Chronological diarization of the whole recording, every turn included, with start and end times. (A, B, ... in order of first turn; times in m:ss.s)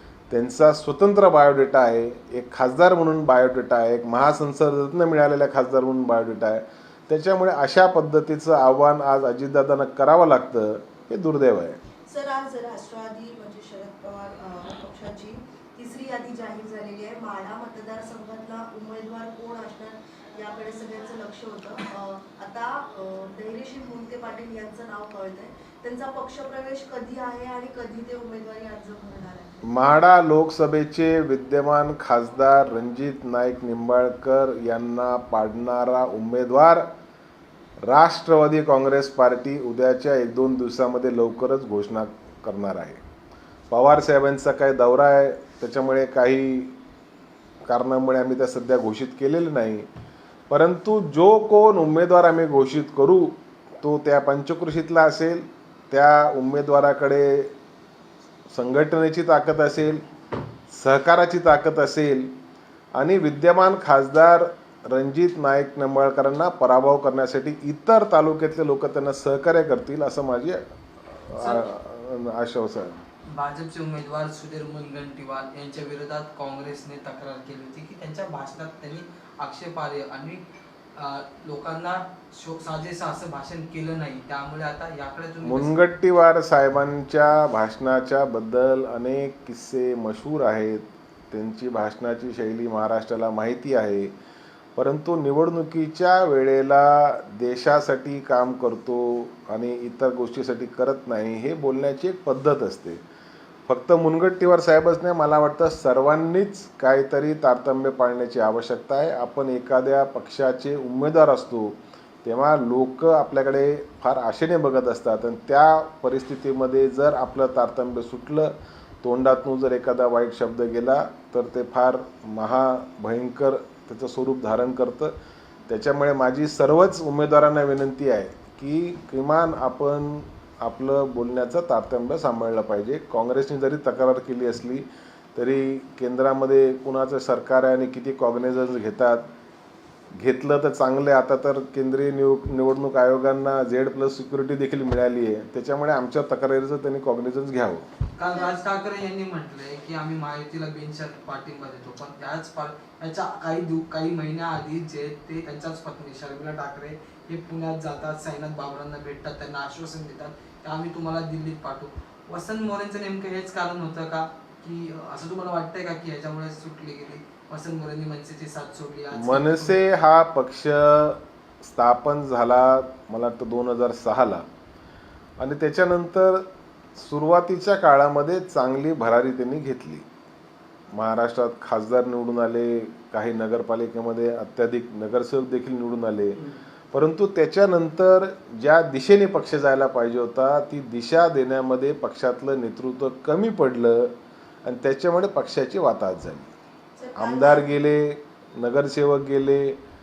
0:00.3-0:11.8 A
0:12.1-0:29.8 B
0:29.7-0:36.9 A
0:37.8-0:43.0 A
0:43.7-0:46.8 A
0:47.6-0:49.9 A
0:50.5-0:57.5 A
0:58.5-1:00.0 A
1:00.7-1:02.3 A
1:02.9-1:13.0 A
1:11.4-1:11.6 C
1:13.3-1:20.4 C
1:21.0-1:25.8 C
1:25.4-1:34.1 A
1:34.8-1:43.0 A
1:43.7-2:05.1 A
2:05.7-2:19.3 A
2:20.1-2:27.8 A
2:28.2-2:49.8 C
2:28.2-2:28.5 B
2:49.1-2:54.5 A
2:55.4-3:00.0 A
3:00.9-3:16.5 A
3:17.0-3:17.6 B
3:17.2-3:19.8 A